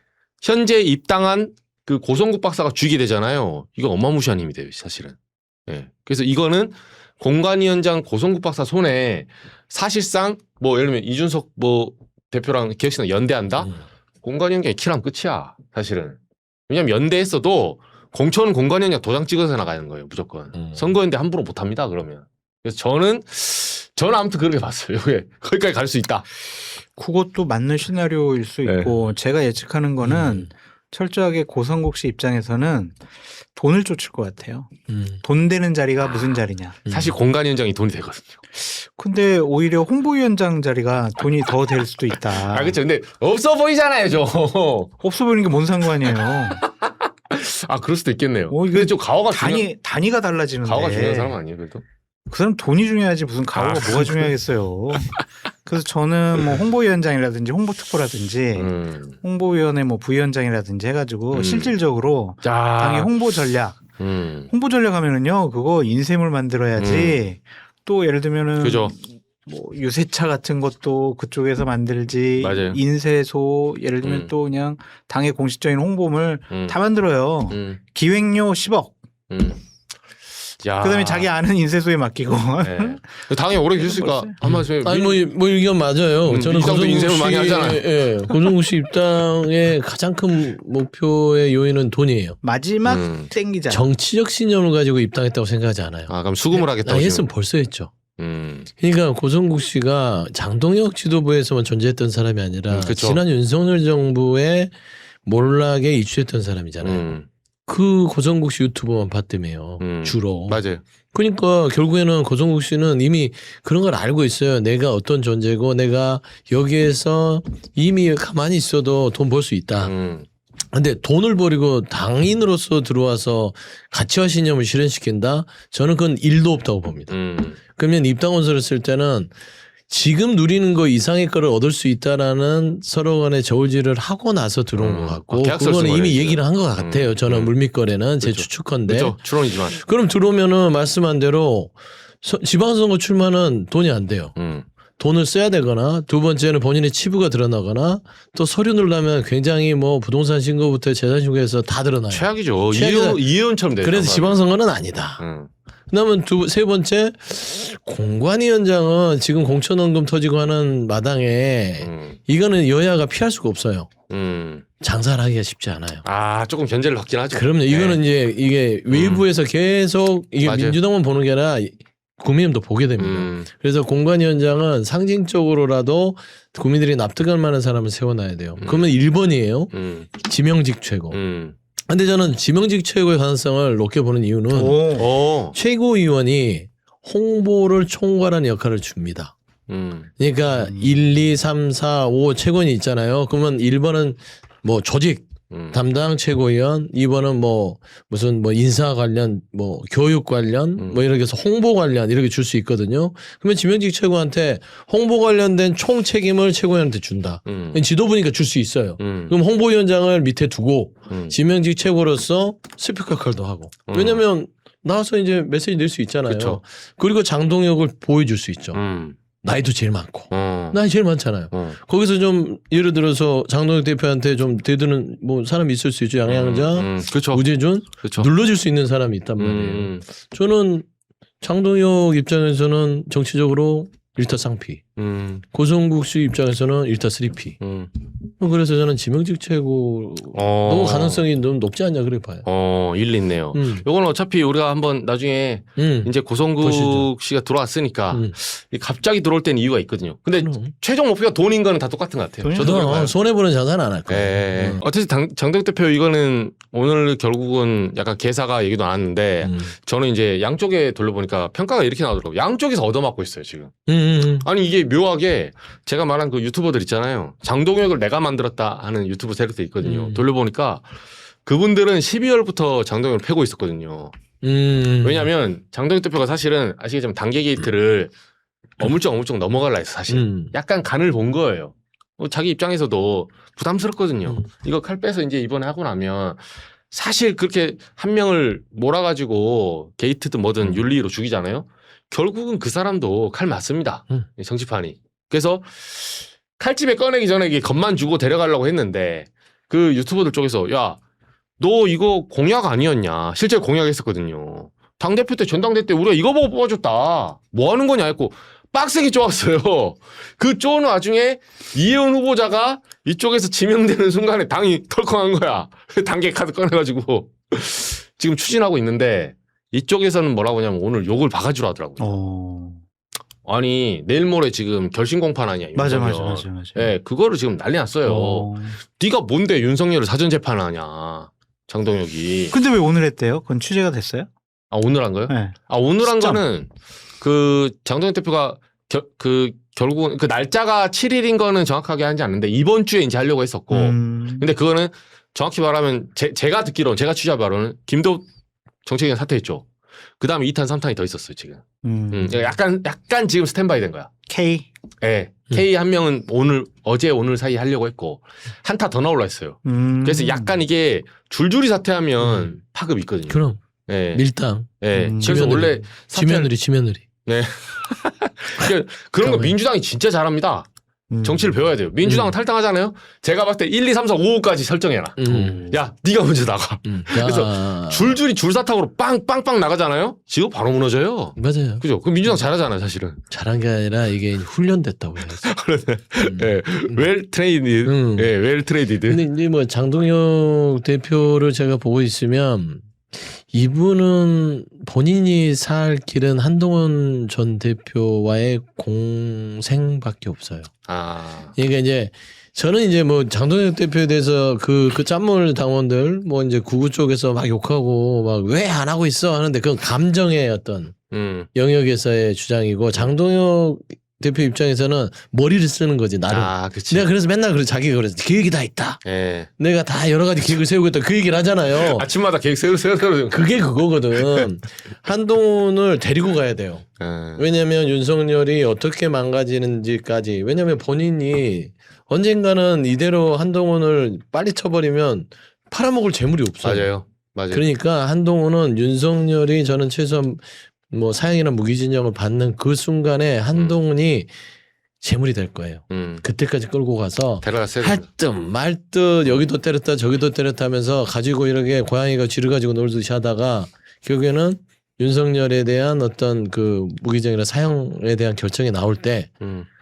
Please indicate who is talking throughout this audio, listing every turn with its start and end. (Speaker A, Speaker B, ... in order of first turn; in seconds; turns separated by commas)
Speaker A: 0.4-5.2, Speaker A: 5.7-16.2, Speaker A: 16.7-26.2, Speaker B: 26.9-33.0, Speaker A: 28.6-29.1, Speaker C: 30.0-30.5, Speaker B: 33.5-34.7, Speaker C: 34.9-35.2, Speaker B: 35.2-36.8, Speaker A: 36.0-38.4, Speaker C: 36.9-37.1, Speaker B: 38.6-42.8, Speaker A: 42.4-44.9, Speaker B: 45.0-46.6, Speaker A: 46.1-49.6, Speaker B: 48.5-51.4, Speaker A: 50.6-51.8, Speaker B: 52.3-63.8, Speaker A: 53.5-54.3, Speaker A: 58.5-59.2, Speaker A: 61.3-61.7, Speaker A: 62.4-63.2, Speaker A: 64.0-64.5, Speaker B: 64.5-78.9, Speaker A: 66.8-67.2, Speaker A: 68.6-68.9, Speaker A: 72.4-72.8, Speaker A: 74.0-74.3, Speaker A: 76.5-76.8, Speaker A: 77.5-77.8, Speaker A: 79.3-79.6, Speaker A: 80.6-81.3, Speaker B: 80.8-83.1, Speaker A: 82.6-85.2, Speaker B: 83.8-84.3, Speaker C: 84.4-92.4, Speaker A: 86.2-88.3, Speaker B: 92.4-93.9, Speaker A: 92.8-93.3, Speaker C: 93.7-97.9, Speaker A: 96.1-97.3, Speaker A: 98.2-98.7, Speaker C: 98.8-104.7, Speaker A: 102.7-103.2, Speaker C: 105.2-107.0, Speaker A: 106.8-107.3, Speaker C: 107.7-119.9, Speaker A: 109.8-110.8, Speaker A: 119.8-120.2, Speaker C: 120.7-127.2, Speaker A: 127.1-127.6, Speaker C: 127.7-129.3, Speaker C: 129.9-144.3, Speaker A: 134.8-137.5, Speaker A: 138.2-139.8, Speaker A: 144.3-144.6, Speaker C: 145.0-153.2, Speaker A: 152.1-154.4, Speaker C: 153.8-155.2, Speaker A: 155.2-155.5, Speaker C: 155.9-163.9, Speaker A: 161.8-162.2, Speaker A: 164.1-164.6, Speaker C: 164.8-166.0, Speaker A: 166.0-168.0, Speaker C: 167.3-181.2, Speaker A: 168.9-169.2, Speaker A: 170.4-170.8, Speaker A: 173.0-173.5, Speaker A: 178.6-178.9, Speaker A: 179.7-180.1, Speaker A: 181.1-181.5, Speaker C: 181.9-189.3, Speaker B: 184.5-185.1, Speaker A: 184.9-185.6, Speaker A: 189.7-190.1, Speaker C: 190.2-218.8, Speaker B: 190.5-191.0, Speaker A: 195.5-195.8, Speaker A: 207.4-207.8, Speaker A: 209.0-209.3, Speaker A: 211.1-211.3, Speaker A: 213.9-214.2, Speaker A: 216.2-216.6, Speaker A: 218.7-219.2, Speaker C: 219.4-230.9, Speaker A: 220.3-220.8, Speaker A: 221.5-221.8, Speaker A: 226.2-227.4, Speaker A: 228.0-228.3, Speaker A: 229.4-230.0, Speaker C: 231.4-234.8, Speaker A: 235.0-235.4, Speaker C: 235.5-237.6, Speaker A: 237.6-237.9, Speaker C: 238.4-242.4, Speaker A: 240.3-241.2, Speaker A: 242.4-253.1, Speaker C: 243.5-243.8, Speaker C: 245.8-247.1, Speaker C: 250.4-250.7, Speaker B: 252.4-253.1, Speaker C: 252.5-254.8, Speaker A: 254.1-263.7, Speaker C: 259.4-259.7, Speaker C: 263.9-264.5, Speaker A: 264.4-270.8, Speaker C: 269.8-270.2, Speaker A: 271.4-274.1, Speaker C: 274.4-275.3, Speaker A: 275.0-278.1, Speaker A: 278.8-301.0, Speaker C: 280.1-280.5, Speaker A: 301.6-322.1, Speaker B: 322.0-322.8, Speaker A: 323.4-332.5, Speaker B: 325.7-326.9, Speaker B: 328.0-328.8, Speaker B: 332.5-334.3, Speaker A: 334.7-348.2, Speaker B: 335.3-336.4, Speaker B: 343.7-344.5, Speaker A: 348.8-349.7, Speaker A: 350.2-354.1, Speaker B: 351.8-352.5, Speaker B: 354.3-354.7, Speaker A: 355.0-364.2, Speaker B: 359.6-360.6, Speaker C: 363.3-363.6, Speaker C: 364.1-367.0, Speaker A: 364.8-366.5, Speaker B: 364.9-365.8, Speaker A: 367.2-370.7, Speaker C: 369.2-369.6, Speaker B: 371.1-371.6, Speaker A: 371.2-383.2, Speaker C: 372.0-372.3, Speaker C: 375.2-375.8, Speaker C: 376.8-378.2, Speaker C: 381.4-382.4, Speaker C: 383.3-385.5, Speaker A: 385.3-389.3, Speaker C: 386.2-387.1, Speaker C: 387.8-388.3, Speaker C: 389.1-400.7, Speaker A: 400.9-401.5, Speaker C: 401.6-410.9, Speaker A: 411.1-411.5, Speaker C: 411.5-419.0, Speaker A: 416.3-417.1, Speaker A: 419.0-419.5, Speaker C: 419.6-422.1, Speaker A: 421.7-423.6, Speaker C: 423.3-426.9, Speaker A: 424.2-424.4, Speaker A: 427.0-427.4, Speaker C: 427.4-436.9, Speaker A: 436.6-437.6, Speaker C: 437.5-444.3, Speaker C: 445.0-459.3, Speaker A: 445.9-446.2, Speaker A: 447.4-448.1, Speaker A: 459.4-459.7